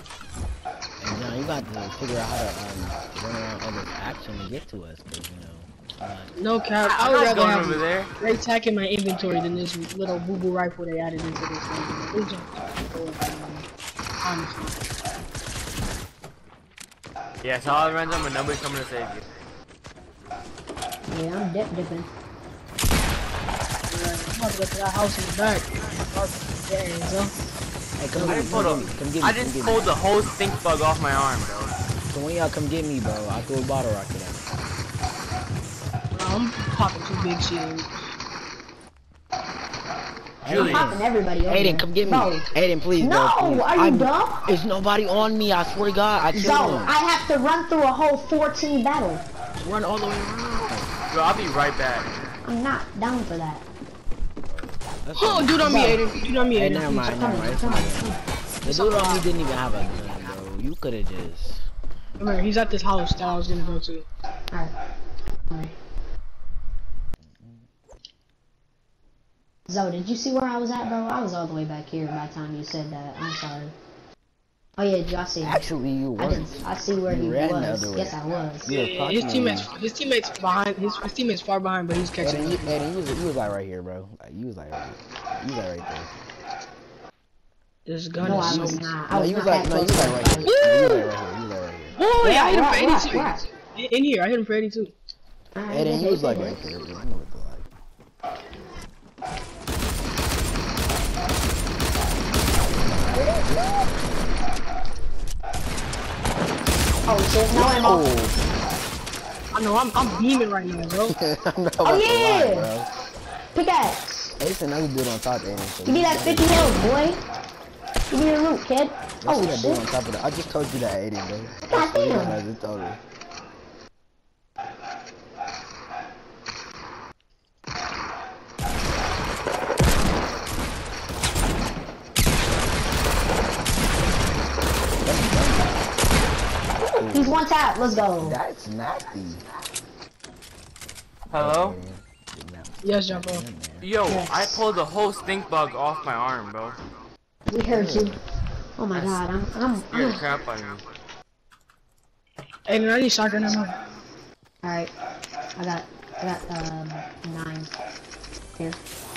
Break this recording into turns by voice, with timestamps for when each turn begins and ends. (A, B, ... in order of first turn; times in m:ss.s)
0:01.0-0:06.3 A
0:06.4-0:13.6 B
0:06.8-0:08.1 C
0:14.2-0:14.8 B
0:17.4-0:19.2 C
0:21.1-0:22.1 D
0:23.9-0:27.3 B
0:28.0-0:29.9 A
0:28.2-0:31.7 C
0:32.1-0:34.5 A
0:36.1-0:38.0 B
0:40.4-0:46.9 A
0:40.5-0:41.0 C
0:40.5-0:42.5 D
0:43.0-0:44.4 D
0:46.3-0:49.2 D
0:46.4-0:46.8 B
0:49.6-0:50.9 A
0:51.1-0:52.1 C
0:52.4-0:53.6 D
0:54.5-1:01.6 A
0:55.2-0:57.0 B
0:55.6-0:56.0 D
0:56.8-0:58.2 D
0:58.7-0:59.3 B
1:02.2-1:04.0 B
1:05.5-1:05.7 D
1:09.7-1:13.7 D
1:14.8-1:18.7 D
1:15.4-1:19.7 A
1:18.7-1:22.7 B
1:22.2-1:26.1 A
1:27.8-1:28.9 B
1:28.2-1:32.0 A
1:28.2-1:30.5 D
1:30.4-1:31.1 B
1:31.9-1:34.9 B
1:32.2-1:33.4 D
1:35.5-1:36.6 D
1:35.7-1:37.7 A
1:43.0-1:43.6 A
1:47.0-1:48.0 D
1:47.5-1:48.4 A
1:49.5-1:51.2 B
1:51.1-1:52.9 A
1:51.8-1:52.7 D
1:53.5-1:54.3 D
1:54.4-1:56.8 A
1:55.8-1:57.2 D
1:58.1-1:59.8 D
1:59.2-2:03.0 A
2:01.6-2:02.4 D
2:15.0-2:15.9 A
2:16.7-2:17.4 A
2:17.0-2:18.4 D
2:18.2-2:19.4 A
2:21.3-2:21.8 C
2:21.3-2:23.9 A
2:22.8-2:23.4 B
2:23.8-2:26.8 C
2:24.0-2:24.6 D
2:27.5-2:28.2 D
2:27.7-2:28.2 A
2:28.8-2:30.2 D
2:28.9-2:29.3 C
2:29.8-2:30.8 C
2:32.7-2:33.7 B
2:34.6-2:34.9 D
2:35.6-2:37.7 D